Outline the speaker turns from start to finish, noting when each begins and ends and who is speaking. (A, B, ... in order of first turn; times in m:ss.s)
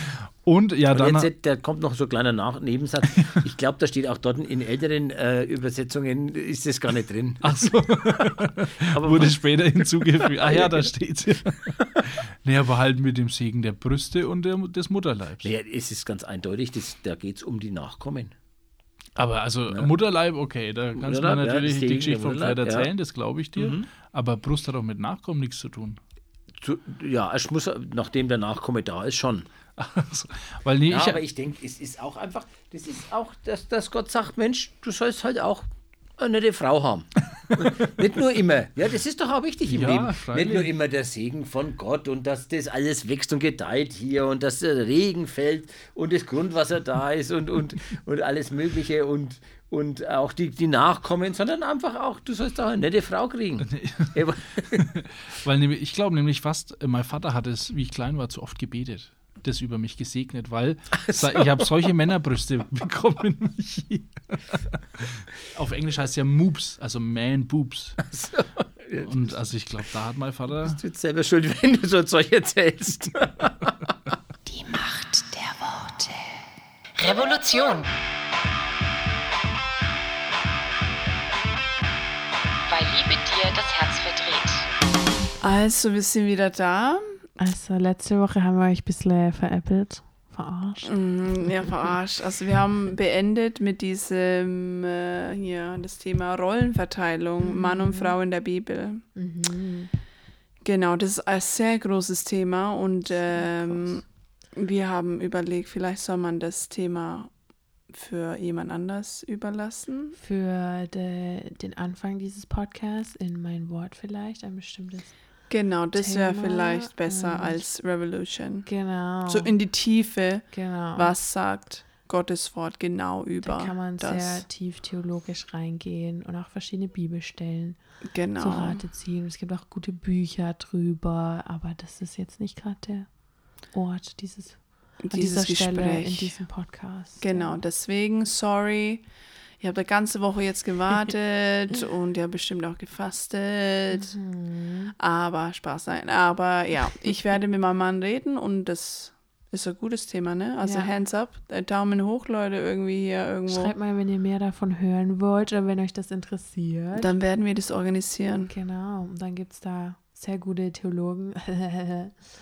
0:00.4-0:01.3 A
0:00.9-0:07.7 B
0:07.4-0:15.5 A
0:08.9-0:09.5 B
0:10.4-0:10.9 B
0:15.4-0:18.3 B
0:19.2-0:26.0 A
0:21.0-0:22.9 B
0:23.5-0:23.9 B
0:26.6-0:29.5 B
0:29.8-0:31.2 A
0:30.9-0:54.8 B
0:39.6-0:40.7 A
0:53.7-0:54.2 A
0:54.8-1:08.0 A
1:00.9-1:01.6 B
1:08.0-1:09.4 B
1:09.0-1:10.8 A
1:10.6-1:13.7 B
1:14.5-1:16.5 C
1:17.0-1:17.9 C
1:22.7-1:24.7 C
1:25.4-1:27.2 D
1:27.4-1:31.8 E
1:30.8-1:39.1 D
1:37.4-1:38.2 E
1:39.1-1:39.9 E
1:40.6-1:50.2 D
1:43.1-1:44.1 E
1:50.2-2:01.3 E
1:55.5-2:04.5 D
2:03.4-2:17.6 E
2:08.0-2:08.9 D
2:15.0-2:24.1 D
2:24.0-2:24.9 E
2:25.0-2:33.7 D
2:30.6-2:30.9 E
2:33.5-2:37.1 E
2:37.0-2:38.5 D
2:38.5-2:42.3 E